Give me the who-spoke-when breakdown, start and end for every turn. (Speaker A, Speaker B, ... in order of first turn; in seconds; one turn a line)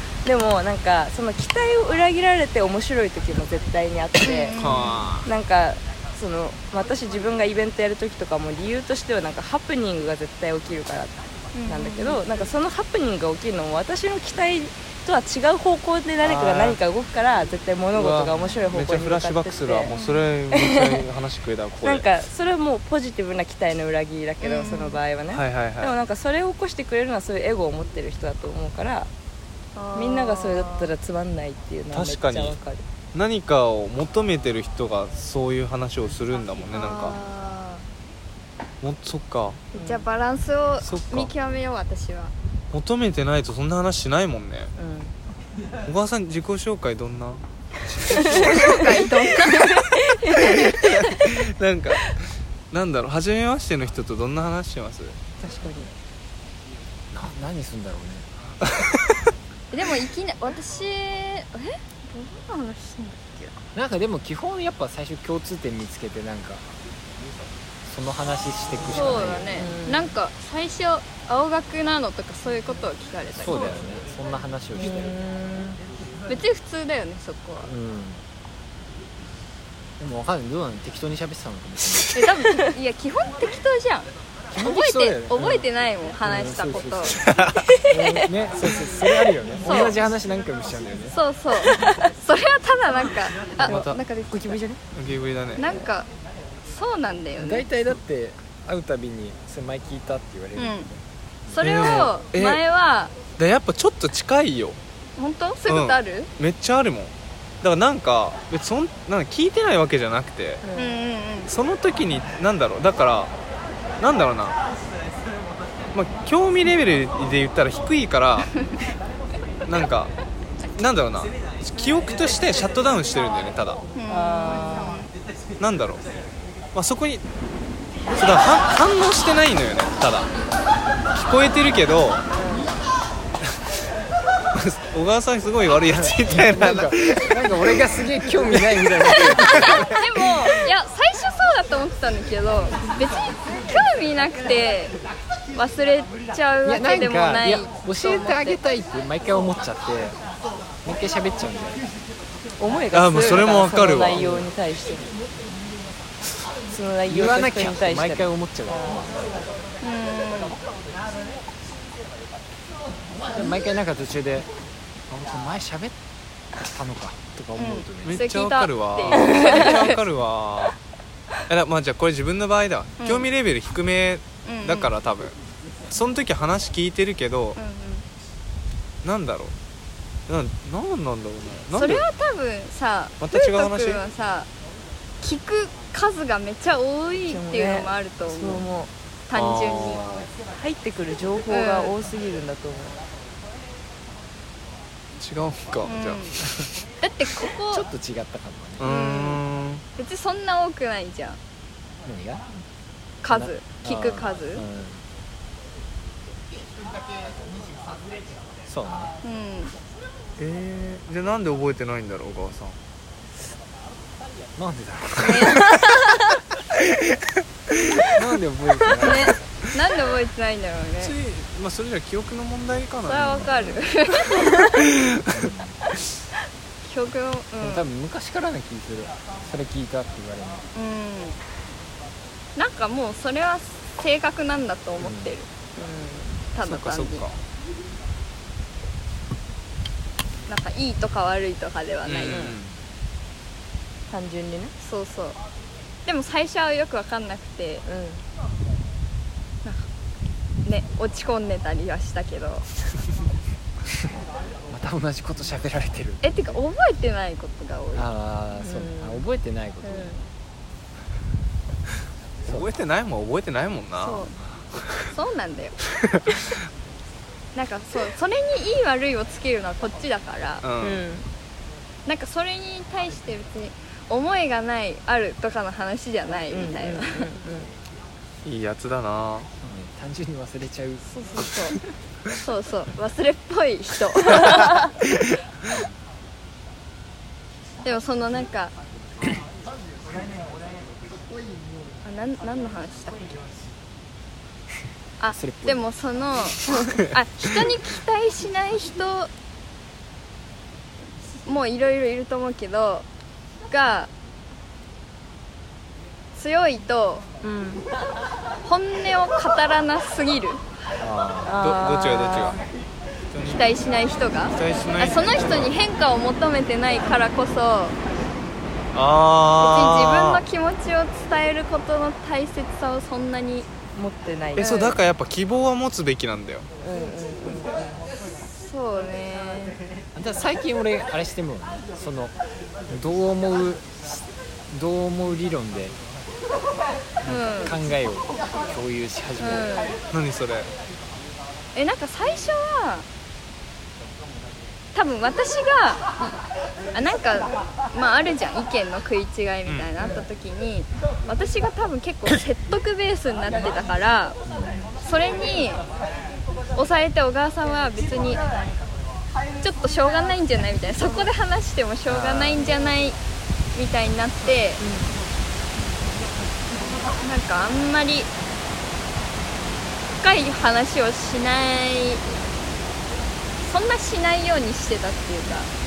Speaker A: 0.2-4.6
Speaker B: 4.2-5.1
Speaker C: 4.6-5.3
Speaker A: 5.2-19.9
Speaker B: 11.5-12.2
Speaker C: 16.2-16.8
Speaker C: 17.9-22.1
Speaker B: 19.9-20.3
Speaker A: 20.5-21.0
Speaker A: 21.8-29.1
Speaker B: 24.4-25.0
Speaker C: 25.3-25.9
Speaker B: 29.8-30.9
Speaker A: 29.9-32.8
Speaker C: 31.9-32.6
Speaker C: 33.1-37.2
Speaker B: 36.7-37.8
Speaker C: 38.8-39.6
Speaker A: 39.7-40.1
Speaker B: 39.7-42.3
Speaker C: 40.8-41.3
Speaker C: 42.7-44.7
Speaker A: 44.8-45.1
Speaker C: 45.8-48.5
Speaker A: 48.1-48.8
Speaker B: 48.1-50.5
Speaker A: 49.4-51.2
Speaker C: 50.4-55.2
Speaker A: 55.4-55.9
Speaker D: 57.1-58.3
Speaker B: 59.7-63.6
Speaker D: 63.8-66.6
Speaker D: 67.8-69.6
Speaker B: 68.8-73.8
Speaker A: 69.6-70.1
Speaker D: 73.3-75.2
Speaker A: 74.8-75.8
Speaker B: 76.3-77.7
Speaker D: 77.6-78.2
Speaker D: 80.0-82.2
Speaker B: 82.1-87.2
Speaker D: 84.5-85.7
Speaker D: 86.2-87.2
Speaker C: 87.2-87.6
Speaker A: 87.8-88.2
Speaker D: 87.9-91.2
Speaker B: 89.6-90.0
Speaker B: 91.1-94.6
Speaker A: 91.6-92.0
Speaker C: 93.6-94.0
Speaker A: 93.7-94.8
Speaker C: 94.9-95.6
Speaker B: 95.6-96.1
Speaker B: 96.7-97.6
Speaker D: 97.4-101.9
Speaker B: 100.5-100.9
Speaker B: 101.5-103.1
Speaker C: 101.6-102.6
Speaker C: 103.4-104.8
Speaker B: 105.2-106.3
Speaker C: 105.7-110.6
Speaker A: 110.6-111.0
Speaker B: 110.8-111.5
Speaker C: 111.5-113.3
Speaker C: 114.0-114.6
Speaker C: 115.9-118.5
Speaker C: 119.7-120.1
Speaker C: 120.8-123.8
Speaker B: 123.9-125.1
Speaker A: 124.1-125.0
Speaker C: 125.6-126.0
Speaker C: 126.7-127.2
Speaker C: 128.2-130.3
Speaker C: 131.1-132.2
Speaker A: 132.3-132.7
Speaker C: 134.5-138.0
Speaker D: 135.8-140.0
Speaker B: 139.2-144.9
Speaker C: 139.5-139.8
Speaker B: 145.5-148.6
Speaker D: 146.6-150.2
Speaker D: 150.8-151.8
Speaker A: 152.6-155.1
Speaker C: 152.9-154.3
Speaker D: 154.1-154.5
Speaker A: 156.7-159.0
Speaker D: 157.1-159.2
Speaker B: 159.8-160.6
Speaker D: 163.3-164.5
Speaker D: 165.1-165.9
Speaker D: 166.6-168.2
Speaker B: 167.6-170.0
Speaker C: 168.0-170.8
Speaker A: 169.1-169.6
Speaker C: 171.5-175.3
Speaker B: 173.0-173.3
Speaker B: 174.4-174.9
Speaker C: 175.9-177.6
Speaker B: 177.6-178.0
Speaker C: 179.0-179.5
Speaker C: 180.3-182.0
Speaker B: 181.7-184.5
Speaker C: 183.2-184.0
Speaker B: 185.2-188.7
Speaker A: 187.3-188.9
Speaker B: 189.3-190.0
Speaker C: 189.3-190.3
Speaker A: 190.5-192.9
Speaker B: 191.5-191.9
Speaker C: 195.2-196.7
Speaker B: 195.8-196.3
Speaker B: 197.0-197.8
Speaker D: 197.7-198.8
Speaker C: 198.8-199.8
Speaker B: 198.8-199.4
Speaker B: 200.0-201.4
Speaker D: 202.0-202.4
Speaker B: 203.2-204.6
Speaker D: 203.3-205.0
Speaker D: 208.7-209.1
Speaker B: 209.2-209.7
Speaker C: 210.4-212.8
Speaker D: 214.6-215.7
Speaker B: 215.2-216.4
Speaker D: 218.1-219.4
Speaker B: 219.0-221.1
Speaker C: 221.0-225.5
Speaker B: 223.0-224.6
Speaker D: 223.2-223.6
Speaker D: 225.3-225.8
Speaker B: 226.8-227.9
Speaker D: 227.6-230.7
Speaker B: 230.8-231.3
Speaker B: 232.6-235.5
Speaker D: 235.0-235.3
Speaker A: 235.8-236.4
Speaker B: 236.5-237.2
Speaker C: 236.6-237.3
Speaker B: 240.5-242.5
Speaker C: 242.0-242.8
Speaker A: 242.3-242.6
Speaker A: 244.1-244.7
Speaker B: 244.8-245.4
Speaker B: 246.1-247.8
Speaker A: 247.8-248.2
Speaker B: 250.7-252.7
Speaker D: 254.7-256.6
Speaker B: 256.2-258.1
Speaker D: 257.9-260.2
Speaker A: 258.6-259.2
Speaker B: 259.8-260.2
Speaker C: 262.5-264.9
Speaker B: 264.0-264.3
Speaker B: 265.1-265.8
Speaker C: 266.1-266.4
Speaker B: 267.5-270.6
Speaker C: 270.6-271.0
Speaker A: 270.8-271.2
Speaker B: 272.1-277.2
Speaker A: 276.5-277.7
Speaker C: 278.4-279.5
Speaker D: 279.6-281.6
Speaker B: 281.1-281.8
Speaker B: 282.4-284.8
Speaker B: 287.8-288.7
Speaker B: 292.0-293.3
Speaker B: 295.2-299.3
Speaker D: 295.3-295.8
Speaker B: 301.4-303.1
Speaker B: 303.7-304.1
Speaker B: 306.3-307.2
Speaker A: 307.4-307.8
Speaker B: 308.6-310.6
Speaker D: 311.0-311.5
Speaker A: 311.4-312.6
Speaker C: 311.6-312.6
Speaker C: 313.3-313.6
Speaker B: 313.4-318.0
Speaker C: 314.5-315.7
Speaker C: 318.9-320.4
Speaker B: 319.6-323.7
Speaker A: 323.9-324.8
Speaker B: 324.6-325.0
Speaker C: 324.6-326.7
Speaker A: 326.8-328.0
Speaker B: 328.5-329.8
Speaker D: 330.1-332.3
Speaker D: 332.9-335.9
Speaker D: 337.2-339.7
Speaker B: 337.2-337.8
Speaker B: 339.4-340.0
Speaker C: 340.1-340.7
Speaker B: 341.8-343.1
Speaker B: 344.9-346.0
Speaker B: 346.9-354.4
Speaker A: 350.0-350.3
Speaker D: 354.5-354.9
Speaker B: 355.0-355.8
Speaker B: 356.7-358.4
Speaker B: 359.6-363.2
Speaker D: 362.1-362.6
Speaker B: 363.7-364.8
Speaker A: 364.8-365.1
Speaker B: 367.1-368.3
Speaker B: 370.2-372.2
Speaker B: 373.6-375.7